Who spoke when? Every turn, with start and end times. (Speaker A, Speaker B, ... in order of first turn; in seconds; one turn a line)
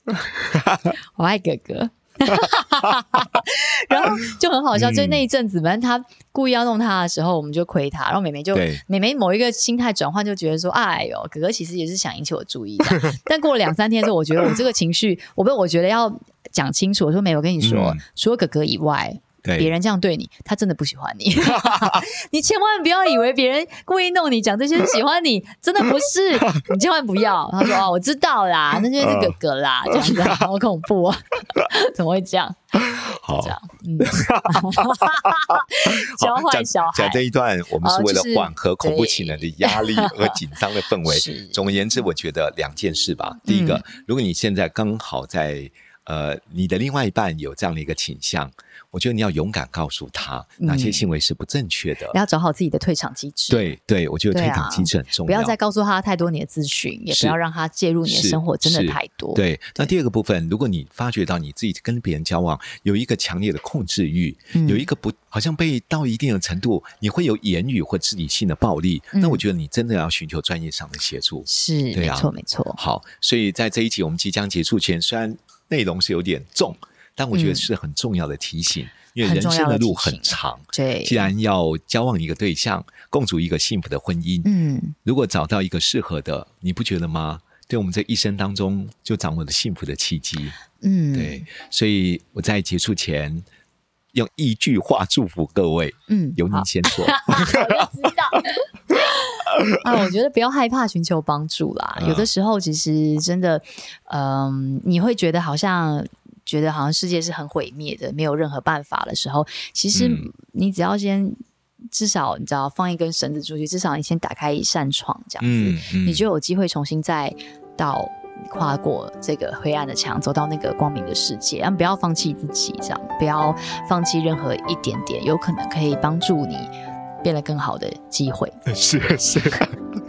Speaker A: 0.4-0.9
Speaker B: 1.1-32.8
Speaker A: 4.7-5.2
Speaker A: 8.5-8.8
Speaker A: 12.9-13.1
Speaker A: 17.6-18.0
Speaker A: 19.4-19.7
Speaker A: 21.4-22.0
Speaker A: 29.0-29.4
Speaker A: 29.9-30.4
Speaker A: 32.8-52.2
Speaker B: 33.4-37.2
Speaker B: 37.8-40.4
Speaker B: 41.0-41.6
Speaker B: 43.5-43.8
Speaker B: 50.6-51.0
Speaker B: 52.1-53.7
Speaker A: 53.5-55.5
Speaker B: 54.3-59.9
Speaker A: 57.1-57.4
Speaker A: 58.0-84.5
Speaker B: 64.5-64.9
Speaker B: 69.1-69.4
Speaker B: 71.5-72.8
Speaker B: 77.3-77.7
Speaker B: 79.2-81.3
Speaker B: 84.4-85.0
Speaker A: 85.0-90.6
Speaker B: 90.8-91.5
Speaker A: 91.1-93.5
Speaker A: 94.1-98.0
Speaker B: 96.1-99.0
Speaker B: 99.8-111.4
Speaker A: 102.0-102.3
Speaker A: 109.9-110.3
Speaker B: 111.9-126.7
Speaker A: 115.4-116.2
Speaker B: 127.2-128.6
Speaker A: 128.7-129.8